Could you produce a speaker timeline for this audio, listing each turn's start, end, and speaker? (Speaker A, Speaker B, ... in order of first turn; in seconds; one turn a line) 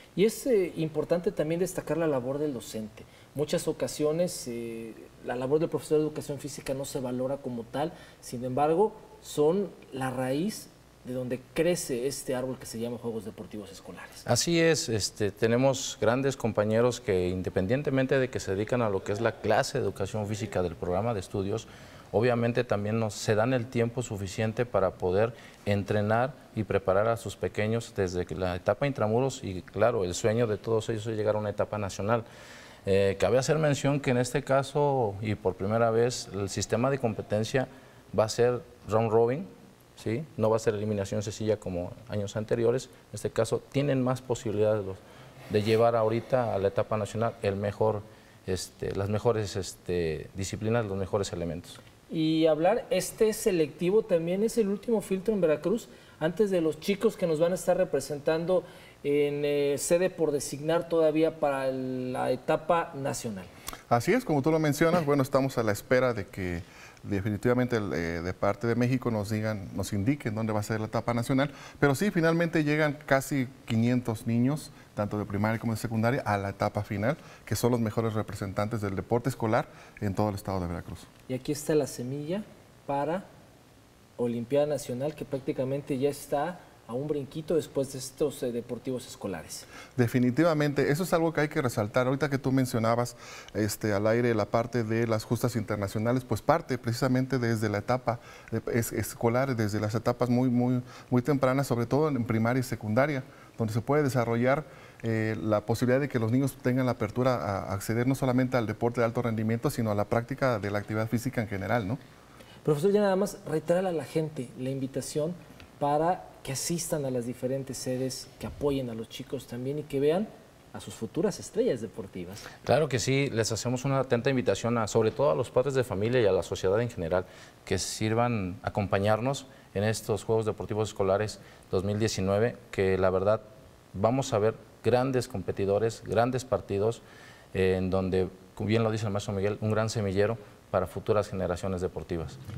Speaker A: 0.1-14.2
Speaker B: 14.2-32.2
Speaker B: 32.9-51.8
Speaker A: 52.1-63.5
Speaker C: 63.9-81.1
Speaker A: 81.3-83.2
Speaker A: 84.2-89.7
Speaker C: 90.0-112.0
Speaker A: 112.6-122.5
Speaker B: 122.6-142.4